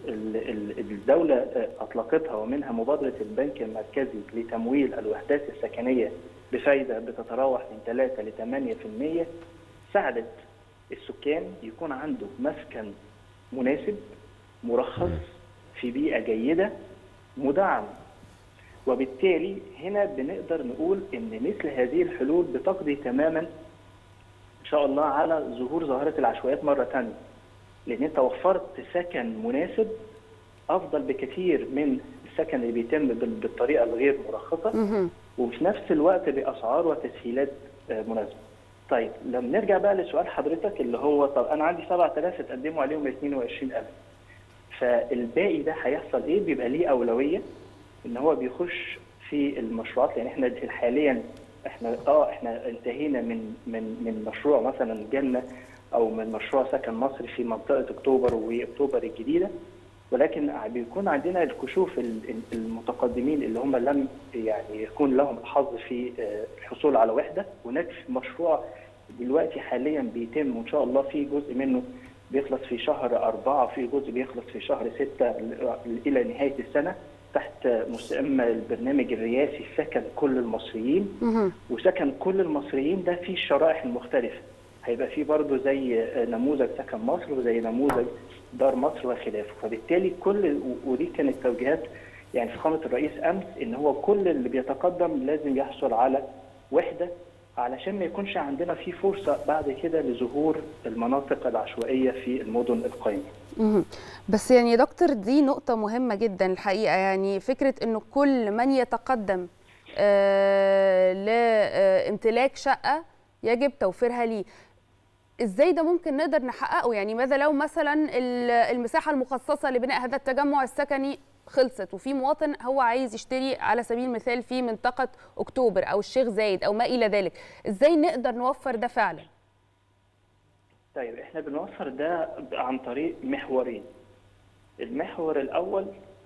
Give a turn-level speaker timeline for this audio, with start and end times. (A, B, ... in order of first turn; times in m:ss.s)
0:00.1-0:09.3 A
0:09.9-0:10.3 A
0:10.9-0:12.9 A
0:13.5-0:14.0 A
0:14.6-0:16.7 A
0:17.4-0:17.9 A
0:18.9-0:23.5 A
0:24.6-0:27.2 A
0:27.9-0:29.9 A
0:30.7-0:34.8 A
0:34.7-0:35.1 B
0:35.4-0:43.9 A
0:44.8-0:47.4 A
0:48.0-0:55.4 A
0:55.9-0:59.5 A
1:00.1-1:08.6 A
1:09.2-1:21.1 A
1:21.2-1:21.5 B
1:21.7-1:43.3 A
1:43.6-1:54.4 B
1:55.4-2:09.3 B
2:10.9-2:13.8 A
2:14.8-2:15.9 A